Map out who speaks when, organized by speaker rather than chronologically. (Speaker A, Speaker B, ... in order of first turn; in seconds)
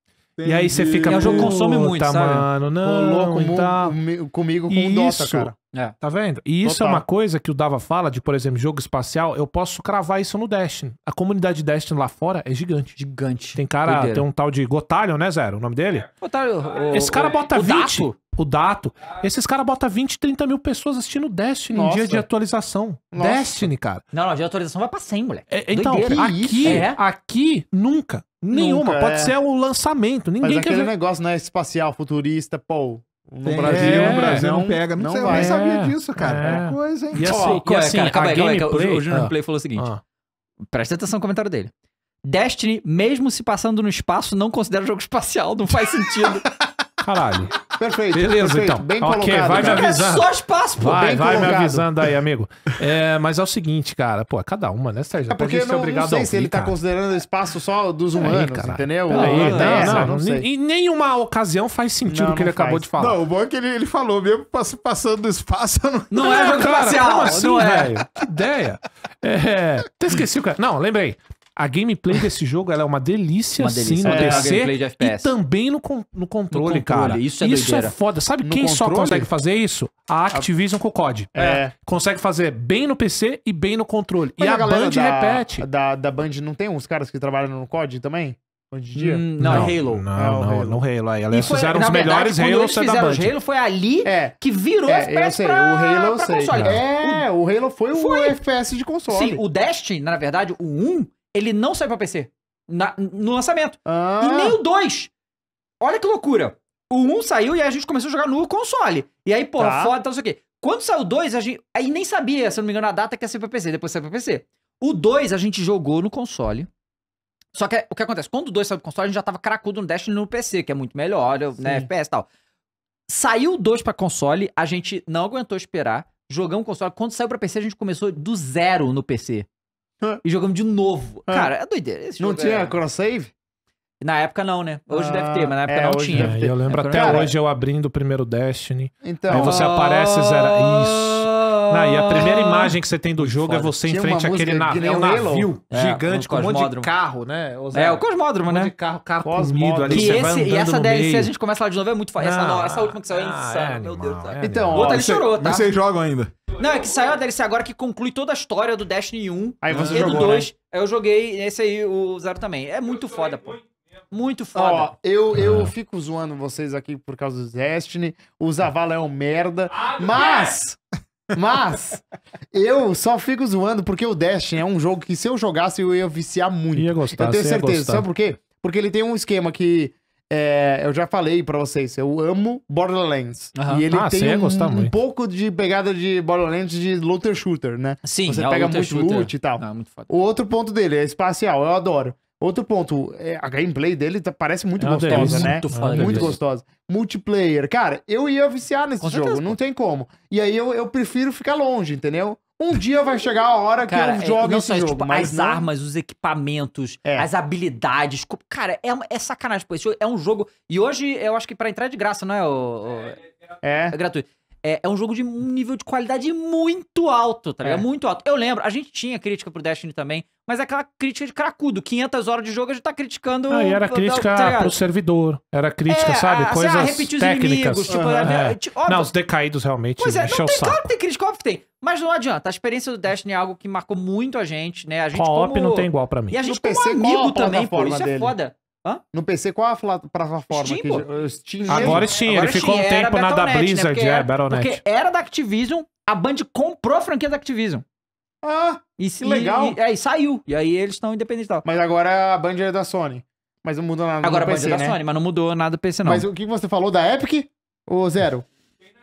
Speaker A: 0.4-1.5, 33.4-37.3, 63.0-66.5, 154.8-156.3, 159.7-160.3
Speaker B: 0.4-3.9, 4.7-12.9, 13.5-16.1, 16.9-24.0, 25.5-30.9, 33.6-34.5, 35.3-40.0, 47.0-47.6, 48.1-56.8, 58.2-63.2, 66.2-85.6, 89.4-93.3, 96.5-96.8, 136.2-151.3, 152.2-154.9, 165.3-165.7, 169.8-170.5, 176.7-178.0, 183.9-184.9, 194.8-196.3, 223.5-230.9, 235.1-236.4, 241.7-244.8
Speaker C: 1.1-2.5, 12.9-14.2, 16.2-18.2, 24.1-27.0, 37.3-39.9, 40.7-41.7, 42.2-46.4, 49.5-51.5, 59.1-60.1, 66.1-67.9, 73.6-75.3, 76.5-78.0, 89.0-90.0, 91.3-97.2, 97.9-98.4, 99.1-105.1, 105.8-116.7, 117.5-122.3, 123.1-129.4, 130.2-132.7, 134.0-137.3, 139.3-143.7, 145.7-146.9, 147.7-148.7, 149.9-155.7, 156.5-163.6, 164.1-164.9, 183.6-183.8, 188.0-190.1, 195.1-196.3, 199.0-199.5, 203.9-213.2, 213.9-224.8, 225.9-229.1, 230.0-239.0, 240.5-241.1, 241.7-247.8, 249.0-251.6, 254.2-256.2
Speaker D: 2.8-5.5, 6.6-7.0, 21.7-22.2, 23.1-23.7, 26.0-26.9, 28.5-29.3, 30.4-35.6, 37.2-37.6, 47.8-49.9, 50.8-51.9, 55.3-60.5, 62.0-62.9, 74.0-74.5, 78.4-79.3, 81.3-81.7, 84.4-90.8, 94.0-94.3, 94.9-99.4, 103.8-104.6, 109.6-109.9, 121.6-121.9, 132.2-133.3, 134.9-137.3, 139.0-139.7, 143.8-145.5, 149.2-150.2, 154.4-155.0, 159.6-160.5, 164.5-170.8, 171.3-205.7, 213.6-213.9, 227.9-228.3, 236.4-238.3, 239.1-242.1, 248.4-249.8, 251.6-255.0, 256.0-258.4